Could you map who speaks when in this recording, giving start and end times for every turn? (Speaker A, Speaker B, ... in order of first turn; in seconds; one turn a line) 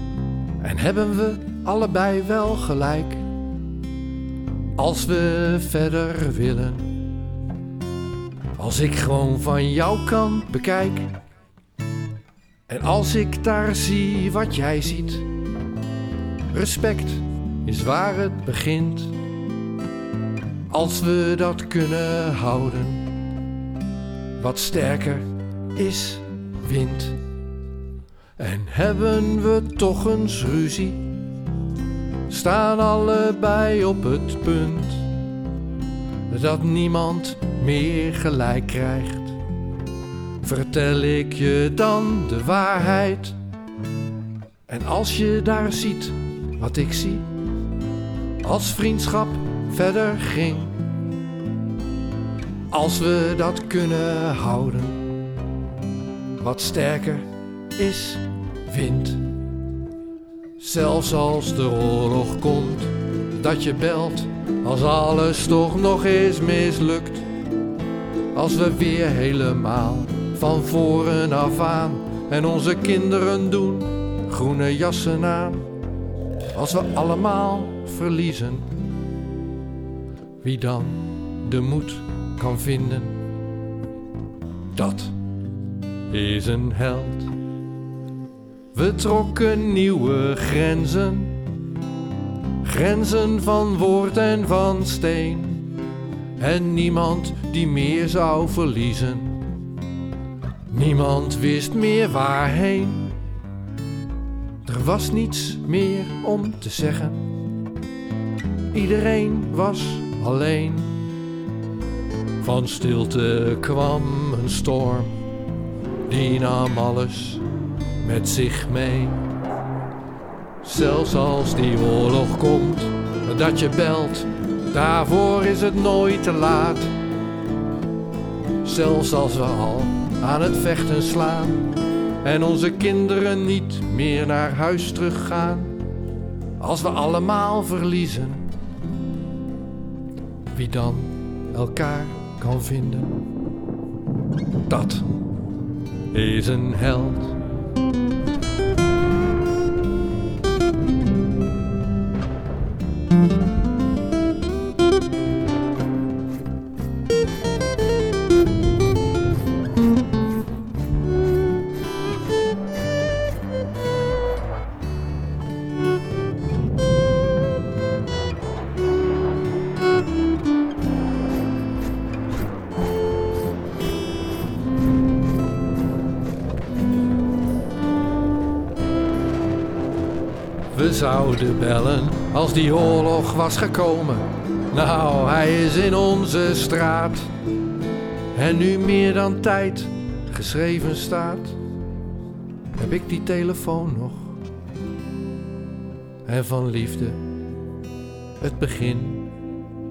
Speaker A: 0.6-3.3
Speaker A: 4.8-6.9
Speaker A: 8.6-11.1
Speaker A: 12.7-15.3
Speaker A: 16.5-19.2
Speaker A: 20.7-23.1
Speaker A: 24.4-27.2
Speaker A: 28.4-31.1
Speaker A: 32.3-35.1
Speaker A: 36.3-39.4
Speaker A: 40.4-43.4
Speaker A: 44.7-47.3
Speaker A: 48.4-50.8
Speaker A: 52.7-55.0
Speaker A: 56.4-59.3
Speaker A: 60.6-67.3
Speaker A: 68.3-75.7
Speaker A: 76.5-78.7
Speaker A: 80.4-83.2
Speaker A: 84.7-85.2
Speaker A: 86.1-87.3
Speaker A: 88.7-91.4
Speaker A: 92.6-95.7
Speaker A: 96.4-99.3
Speaker A: 100.7-103.2
Speaker A: 104.7-107.3
Speaker A: 108.7-111.1
Speaker A: 112.4-115.2
Speaker A: 116.1-117.5
Speaker A: 118.0-119.2
Speaker A: 120.6-126.9
Speaker A: 128.6-135.8
Speaker A: 136.6-138.5
Speaker A: 140.5-143.2
Speaker A: 144.7-145.1
Speaker A: 146.1-147.4
Speaker A: 180.7-187.3
Speaker A: 188.3-191.6
Speaker A: 192.8-194.4
Speaker A: 196.2-197.2
Speaker A: 198.4-199.3